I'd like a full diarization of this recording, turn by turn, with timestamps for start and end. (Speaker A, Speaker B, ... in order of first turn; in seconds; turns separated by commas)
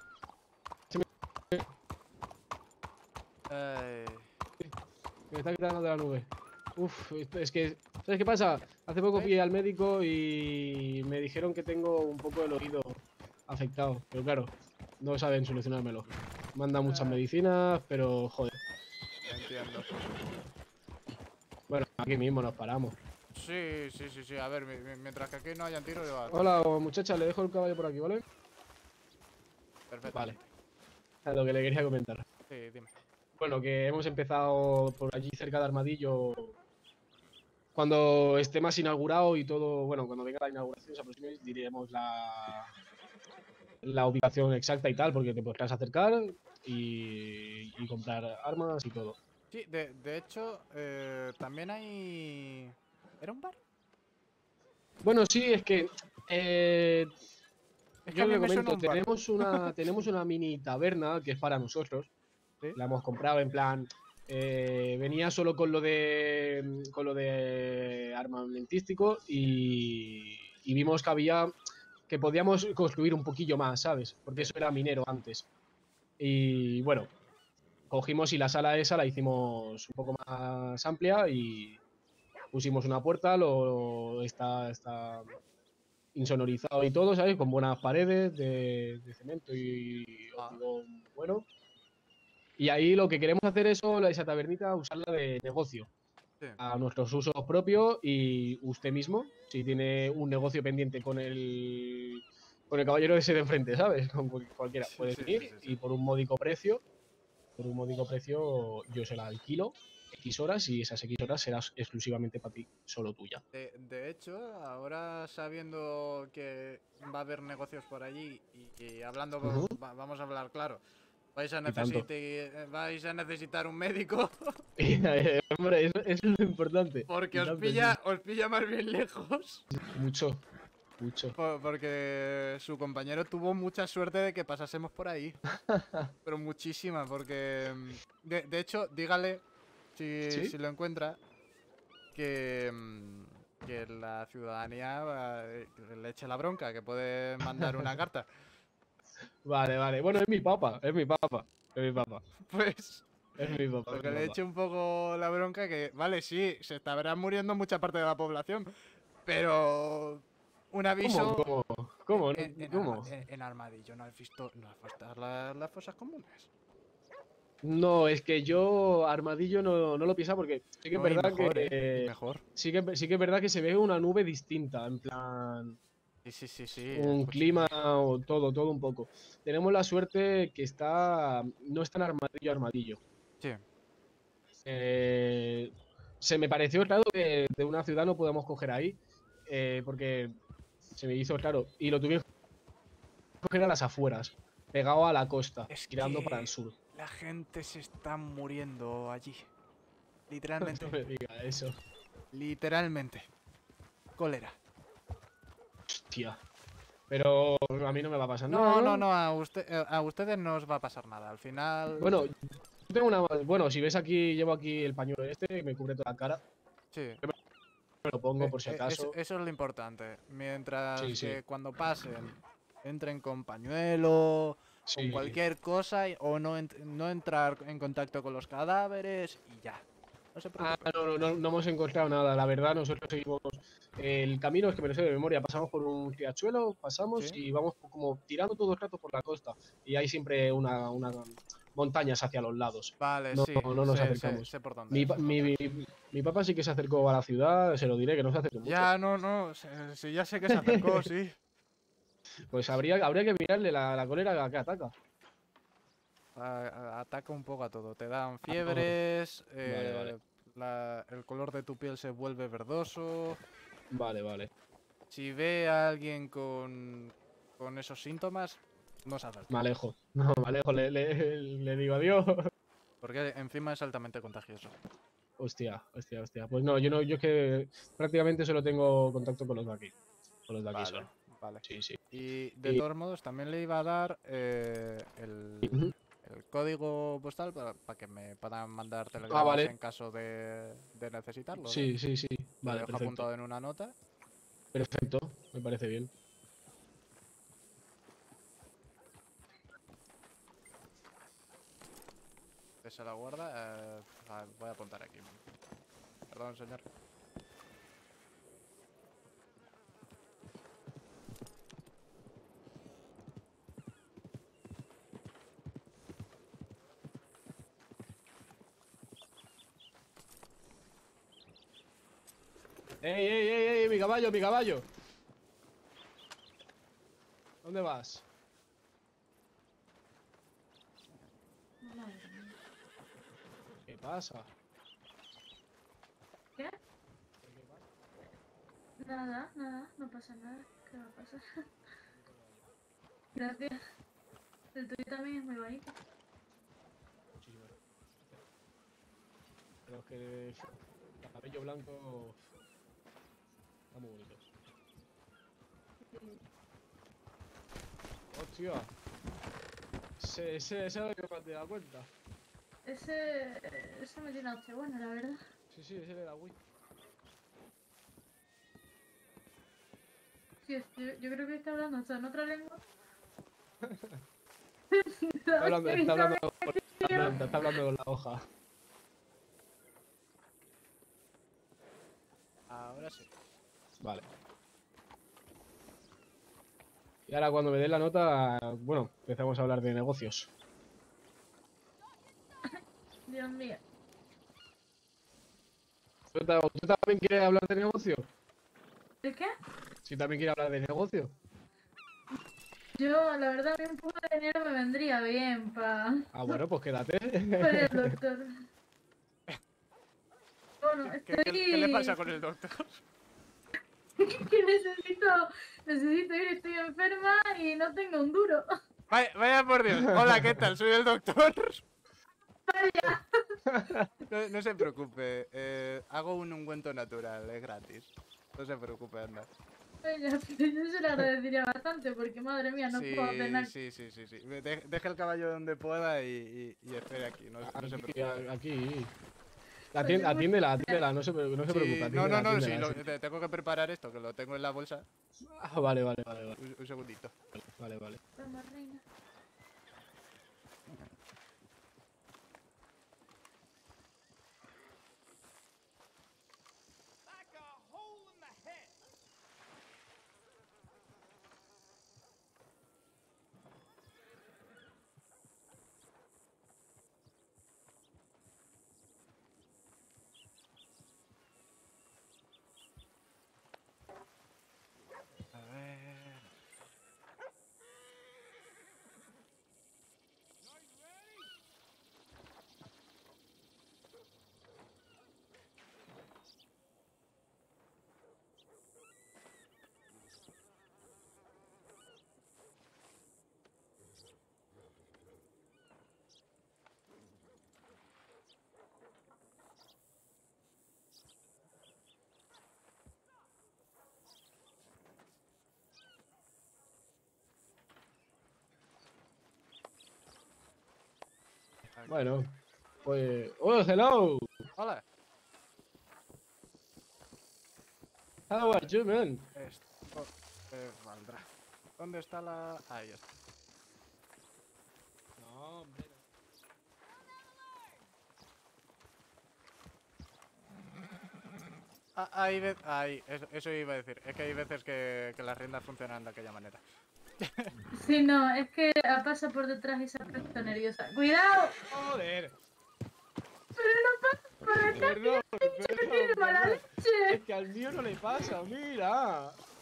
Speaker A: 0.9-1.7, Speaker B: 3.5-4.3, Speaker A: 5.3-18.6, Speaker B: 16.9-17.2, Speaker B: 19.3-19.9, Speaker A: 21.7-23.0, Speaker B: 23.3-26.5, Speaker A: 26.3-28.2, Speaker B: 29.9-30.4, Speaker A: 30.1-30.4, Speaker A: 31.2-32.2, Speaker B: 32.5-32.9, Speaker A: 33.4-36.5, Speaker A: 37.7-42.7, Speaker A: 43.8-49.2, Speaker B: 49.5-53.6, Speaker A: 55.0-57.1, Speaker B: 58.0-59.7, Speaker A: 58.1-62.1, Speaker A: 62.8-71.5, Speaker A: 72.1-75.5, Speaker A: 76.2-77.1, Speaker A: 77.9-81.8, Speaker A: 82.5-85.3, Speaker A: 86.1-91.5, Speaker A: 92.6-95.9, Speaker A: 96.6-106.8, Speaker B: 104.8-105.7, Speaker A: 107.6-113.4, Speaker B: 113.5-120.8, Speaker A: 119.4-119.8, Speaker B: 121.3-124.6, Speaker A: 121.7-122.1, Speaker A: 124.8-128.0, Speaker B: 127.1-129.7, Speaker A: 129.8-130.4, Speaker A: 131.0-131.3, Speaker B: 131.4-135.4, Speaker A: 135.6-136.1, Speaker B: 136.2-139.4, Speaker B: 139.9-141.2, Speaker A: 140.3-140.5, Speaker B: 142.1-148.3, Speaker A: 147.6-147.9, Speaker A: 149.4-152.2, Speaker B: 152.5-158.7, Speaker A: 153.4-154.4, Speaker B: 159.2-161.5, Speaker A: 161.0-163.1, Speaker B: 162.1-166.5, Speaker A: 167.6-175.8, Speaker B: 170.9-172.4, Speaker B: 176.2-177.7, Speaker A: 176.9-183.0, Speaker A: 184.6-190.3, Speaker A: 190.9-192.2, Speaker A: 193.4-196.7, Speaker B: 195.7-199.5, Speaker B: 200.3-201.0, Speaker A: 200.6-201.8, Speaker B: 202.3-203.2, Speaker B: 204.2-204.6, Speaker A: 205.9-206.4, Speaker A: 207.1-209.1, Speaker B: 208.5-212.1, Speaker A: 212.0-216.4, Speaker B: 216.9-217.2, Speaker A: 218.0-219.1, Speaker B: 218.4-229.8, Speaker A: 221.0-221.4, Speaker A: 224.9-225.4, Speaker B: 230.3-230.9, Speaker A: 230.6-248.9, Speaker B: 243.0-245.5, Speaker B: 248.6-251.3, Speaker A: 250.5-251.1, Speaker A: 252.5-254.9, Speaker B: 256.4-263.4, Speaker A: 258.5-258.9, Speaker A: 259.6-260.1, Speaker A: 263.9-264.5, Speaker B: 265.1-269.5, Speaker A: 269.5-272.5, Speaker B: 273.0-274.8, Speaker A: 275.4-279.9, Speaker A: 280.5-281.1, Speaker B: 280.7-291.9, Speaker A: 281.6-282.0, Speaker A: 285.6-285.9, Speaker A: 289.3-289.7, Speaker A: 291.6-293.2, Speaker B: 292.6-293.9, Speaker A: 294.7-296.1, Speaker B: 302.8-305.4, Speaker B: 306.3-306.9, Speaker A: 323.0-324.9, Speaker A: 327.6-328.2, Speaker C: 331.8-332.6, Speaker A: 333.9-334.5, Speaker A: 337.4-337.9, Speaker C: 339.0-341.4, Speaker A: 342.1-342.7, Speaker C: 343.3-343.8, Speaker C: 344.7-345.9, Speaker A: 347.4-347.8, Speaker A: 349.9-352.4, Speaker A: 353.9-354.5, Speaker C: 356.1-356.4, Speaker A: 358.3-358.9, Speaker A: 360.2-362.1, Speaker C: 362.9-365.4, Speaker A: 365.7-366.6, Speaker C: 370.6-372.8, Speaker A: 373.8-374.2, Speaker C: 374.9-377.4, Speaker A: 375.6-378.4, Speaker B: 382.7-383.3, Speaker A: 387.3-390.5, Speaker C: 393.3-393.8, Speaker A: 396.3-398.3, Speaker C: 399.2-399.5, Speaker A: 400.0-401.3, Speaker C: 403.0-406.6, Speaker A: 406.3-408.2, Speaker C: 407.6-408.5, Speaker C: 410.8-412.2, Speaker B: 411.0-413.0, Speaker C: 414.2-418.7, Speaker B: 419.1-421.8, Speaker C: 422.7-423.6, Speaker A: 423.6-424.1, Speaker B: 424.3-429.5, Speaker C: 430.0-433.7, Speaker B: 432.9-438.4, Speaker A: 437.6-439.1, Speaker A: 439.9-443.0, Speaker C: 440.0-441.0, Speaker B: 441.7-445.1, Speaker A: 445.6-446.6, Speaker B: 446.6-447.3, Speaker A: 447.8-448.2, Speaker C: 448.4-449.0, Speaker B: 475.5-476.4, Speaker B: 511.9-512.2, Speaker A: 512.1-514.7, Speaker B: 514.8-515.0, Speaker A: 518.5-519.5, Speaker B: 518.6-518.9, Speaker B: 519.5-521.5, Speaker B: 522.0-523.3, Speaker A: 525.4-526.2, Speaker B: 532.1-536.8, Speaker B: 537.4-537.7, Speaker C: 537.9-541.8, Speaker A: 541.9-542.5, Speaker C: 543.8-547.4, Speaker A: 544.9-549.6